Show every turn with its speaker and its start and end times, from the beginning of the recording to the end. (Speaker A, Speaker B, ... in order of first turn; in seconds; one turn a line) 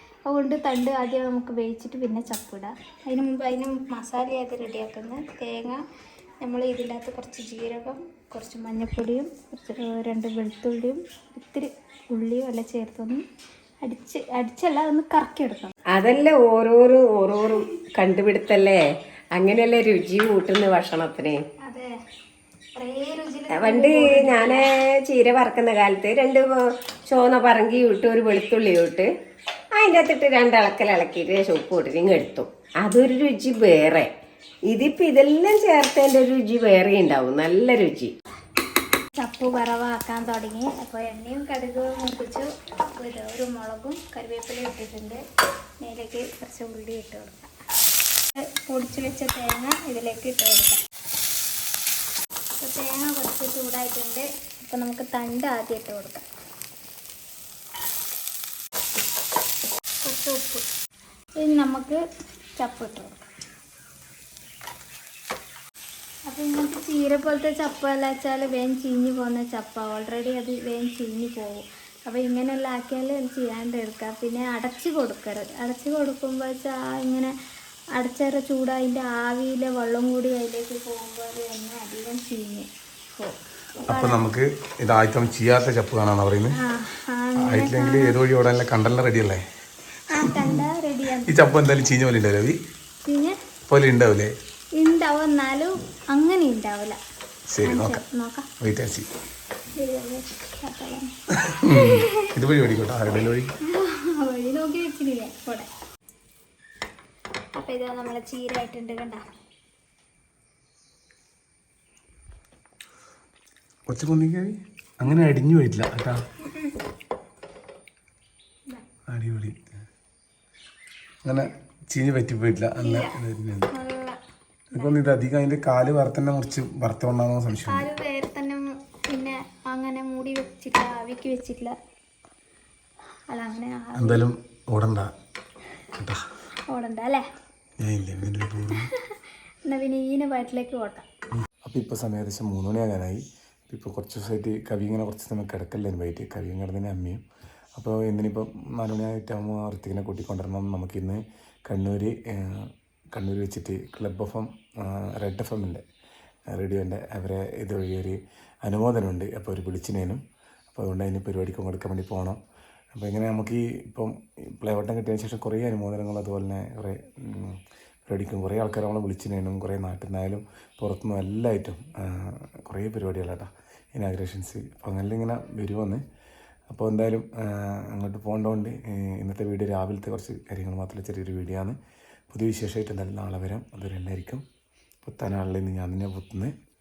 Speaker A: 0.2-5.8
Speaker A: 6.4-13.2
Speaker A: 13.8-15.7
Speaker B: 15.9-18.8
Speaker B: 19.4-21.4
Speaker A: 21.6-21.9
Speaker A: 22.8-24.7
Speaker B: 23.5-29.1
Speaker B: 29.8-34.1
Speaker B: 34.7-38.1
Speaker A: 39.2-45.2
Speaker A: 45.8-47.5
Speaker A: 48.4-50.8
Speaker A: 52.6-56.2
Speaker A: 60.0-60.6
Speaker A: 61.4-62.0
Speaker A: 62.5-63.2
Speaker A: 66.3-77.3
Speaker A: 78.0-84.2
Speaker C: 83.8-86.6
Speaker A: 86.5-88.2
Speaker C: 87.4-89.4
Speaker A: 90.1-91.3
Speaker C: 90.2-90.6
Speaker C: 91.2-92.6
Speaker A: 93.0-93.3
Speaker C: 93.7-94.3
Speaker A: 94.8-97.0
Speaker C: 97.5-98.0
Speaker A: 97.6-98.5
Speaker C: 98.6-99.1
Speaker A: 99.8-101.1
Speaker C: 101.4-103.5
Speaker A: 101.7-102.2
Speaker A: 103.7-105.7
Speaker A: 107.5-109.2
Speaker C: 113.9-116.2
Speaker C: 119.1-119.8
Speaker C: 121.2-123.7
Speaker A: 122.8-123.1
Speaker A: 123.7-124.2
Speaker C: 124.7-127.9
Speaker A: 127.6-131.7
Speaker A: 133.3-134.2
Speaker C: 133.9-135.1
Speaker A: 136.7-137.2
Speaker C: 137.8-138.9
Speaker A: 138.7-139.1
Speaker A: 139.6-141.1
Speaker C: 141.6-147.2
Speaker C: 147.8-155.8
Speaker C: 156.5-160.2
Speaker C: 160.7-162.4
Speaker C: 162.9-176.0
Speaker C: 176.7-181.8
Speaker C: 182.3-184.4
Speaker C: 185.0-186.5